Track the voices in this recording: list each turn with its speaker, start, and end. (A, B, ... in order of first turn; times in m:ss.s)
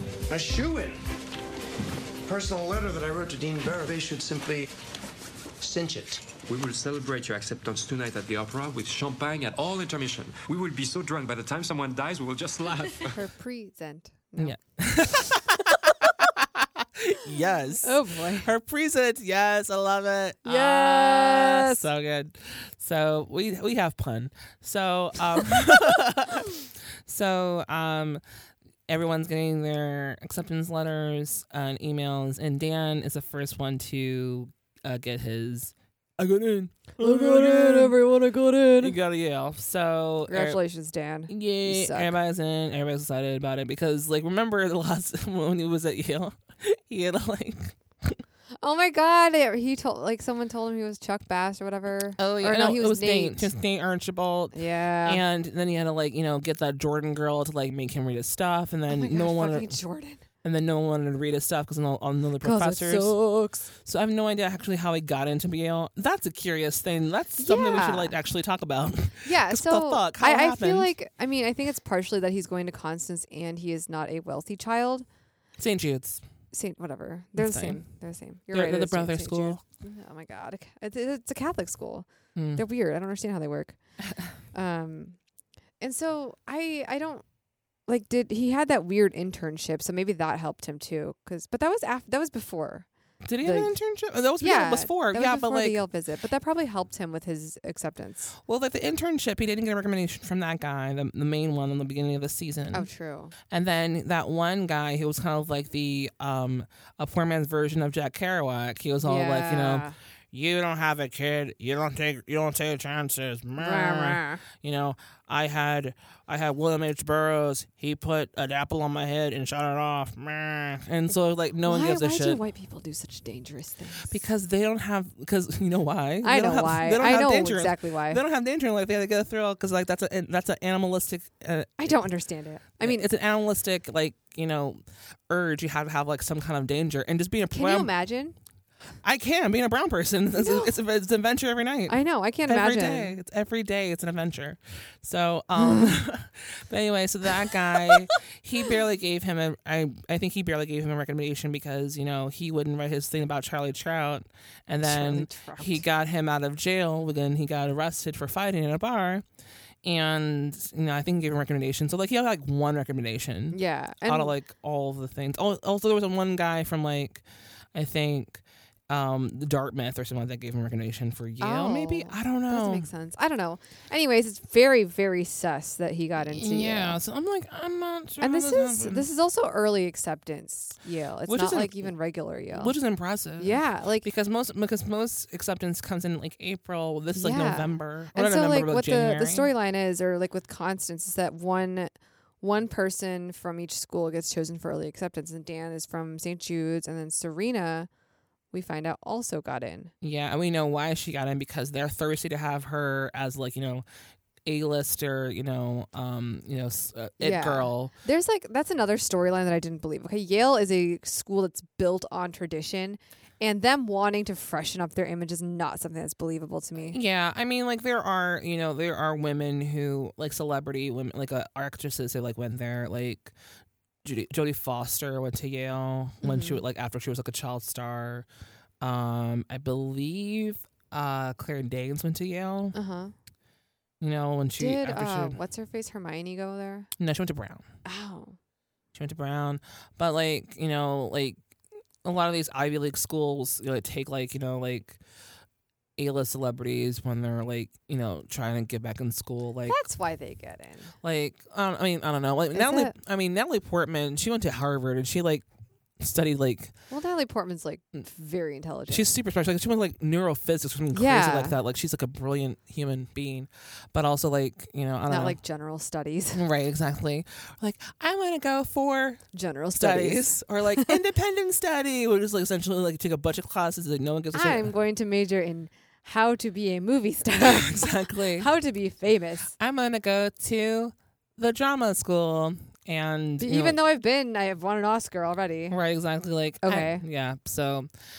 0:00.3-0:01.0 A
0:02.2-0:04.7 A
0:05.6-0:06.2 A
0:06.5-0:13.2 B
0:13.1-0:16.1 C
0:14.4-0:28.2 D
0:17.8-0:18.5 C
0:20.4-0:21.8 C
0:28.9-0:37.9 D
0:37.0-0:38.9 C
0:38.8-0:40.6 D
0:40.3-0:42.1 C
0:41.3-0:48.2 D
0:48.6-0:53.5 C
0:52.2-0:59.8 D
0:54.5-0:55.2 C
0:58.9-1:00.2 C
1:00.4-1:03.1 D
1:02.4-1:03.7 C
1:03.8-1:10.9 D
1:07.4-1:08.2 C
1:09.2-1:15.0 C
1:15.6-1:16.2 D
1:16.5-1:23.8 C
1:17.4-1:17.8 D
1:18.5-1:19.6 D
1:22.4-1:22.6 D
1:24.0-1:24.3 D
1:24.5-1:25.2 C
1:25.8-1:27.2 C
1:27.9-1:32.9 C
1:33.2-1:35.8 D
1:33.4-1:33.8 C
1:34.4-1:38.3 C
1:38.4-1:42.9 D
1:42.7-1:43.3 C
1:43.5-2:02.4 D
1:49.0-1:50.0 C
1:53.6-1:54.4 C
2:01.6-2:04.2 C
2:04.1-2:12.0 D
2:06.2-2:08.2 C
2:11.8-2:13.1 C
2:12.8-2:17.9 D
2:17.5-2:18.4 C
2:19.0-2:39.2 D
2:20.3-2:20.7 C
2:21.9-2:23.2 C
2:25.6-2:25.9 C
2:34.8-2:35.8 C
2:39.8-2:47.2 D
2:43.5-2:44.3 C
2:47.7-2:52.9 D
2:51.4-2:57.0 C
2:56.3-2:59.0 D
2:58.2-3:02.7 C
3:01.3-3:01.9 D
3:02.5-3:09.5 D
3:03.4-3:04.1 C
3:07.1-3:17.9 C
3:18.5-3:19.9 C
3:20.0-3:23.8 D
3:24.4-3:27.9 D
3:27.2-3:37.0 C
3:36.9-3:43.3 D
3:44.0-3:48.3 D
3:46.2-3:46.6 C
3:48.8-3:52.7 D
3:52.7-3:53.1 C
3:54.0-3:55.4 D
3:54.6-3:56.9 C
3:57.0-3:57.6 D
3:57.8-3:58.4 C
3:58.9-4:01.4 D
4:02.0-4:05.0 D
4:06.0-4:09.8 D
4:09.7-4:10.9 C
4:11.0-4:15.4 D
4:12.5-4:12.9 C
4:16.0-4:16.7 D
4:16.9-4:19.1 C
4:18.9-4:25.4 D
4:20.9-4:21.6 C
4:25.1-4:26.4 C
4:26.3-4:29.2 D
4:29.3-4:31.0 C
4:29.7-4:34.7 D
4:34.3-4:39.5 C
4:37.4-4:38.5 D
4:39.6-4:43.8 D
4:43.4-4:45.8 C
4:45.7-4:47.9 D
4:46.6-4:47.0 C